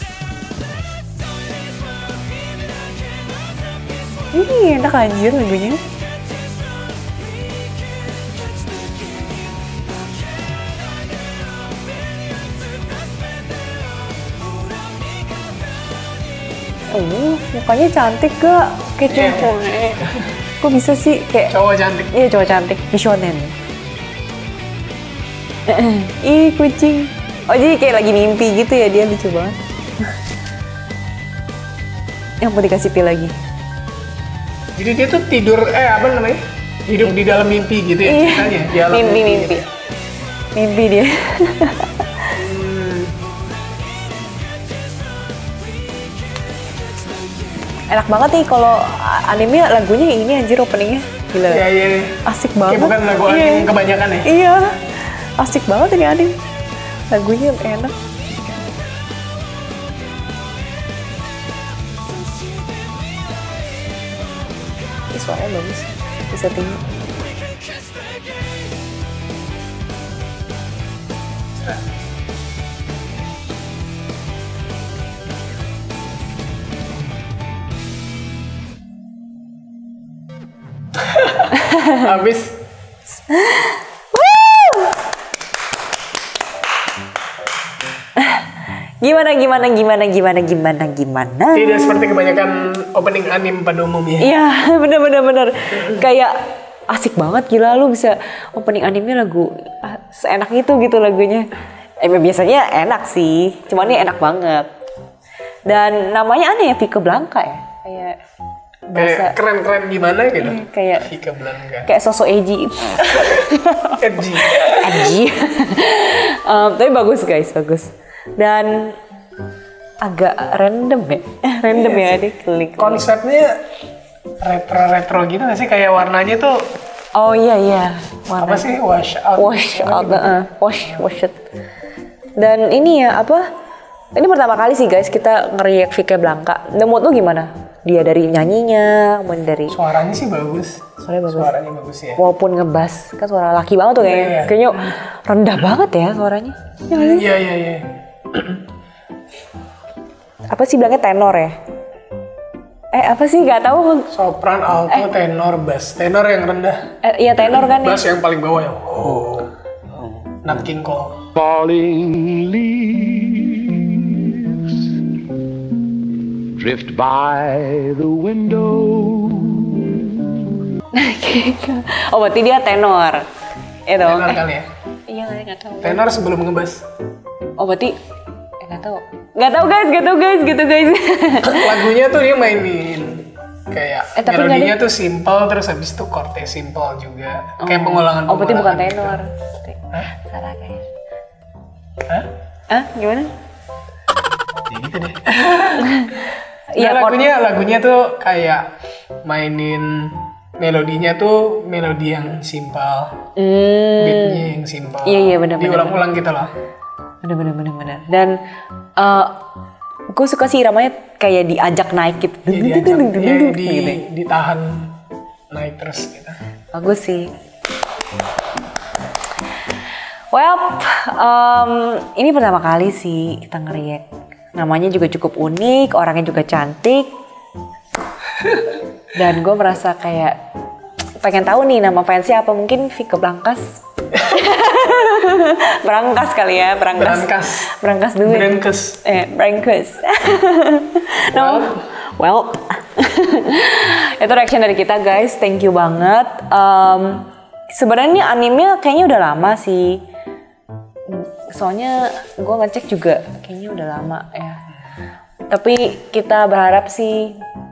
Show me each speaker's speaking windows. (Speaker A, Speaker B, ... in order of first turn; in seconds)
Speaker A: 4.3-5.8, 16.9-21.5, 22.1-23.5, 25.7-29.6, 32.4-33.4, 38.0-39.7, 40.5-42.3, 47.9-51.6, 52.2-53.7, 54.2-56.4, 57.1-57.9, 65.1-66.8, 81.6-81.9, 83.3-85.0, 88.2-91.8, 94.2-96.3, 96.9-101.5, 102.0-104.7, 105.7-108.2, 108.9-109.3, 110.4-111.1, 111.8-119.0, 120.0-123.0, 127.1-128.7, 129.4-131.4, 132.4-133.4, 134.1-139.8, 141.0-141.5, 142.2-147.3, 150.5-151.5, 152.9-154.1, 157.0-158.0, 170.9-173.2, 173.9-174.4, 175.1-176.1, 177.6-177.9, 178.6-181.9, 184.2-184.8, 187.6-190.8, 192.7-193.3, 195.8-197.2, 203.4-204.4, 205.0-206.0, 207.2-208.4, 209.0-209.3, 210.1-214.0, 216.7-217.3, 220.3-227.1, 229.1-230.3, 231.2-250.0, 251.1-254.6, 255.5-257.4
Speaker B: 19.1-20.0, 21.5-22.1, 34.7-39.7, 42.3-43.2, 51.5-54.3, 81.0-82.5, 91.5-94.3, 108.9-111.9, 114.0-115.1, 121.7-122.2, 122.8-123.6, 124.4-126.6, 128.4-130.4, 139.7-142.2, 144.1-144.6, 146.9-148.6, 154.1-156.8, 157.6-159.5, 160.4-161.3, 174.0-174.7, 175.8-176.8, 181.4-189.2, 194.7-196.1, 196.8-198.7, 199.2-203.2, 204.0-206.5, 212.4-214.9, 215.5-216.4, 236.9-237.7, 238.2-239.0, 241.3-241.9
Speaker C: 161.4-164.8, 166.6-170.5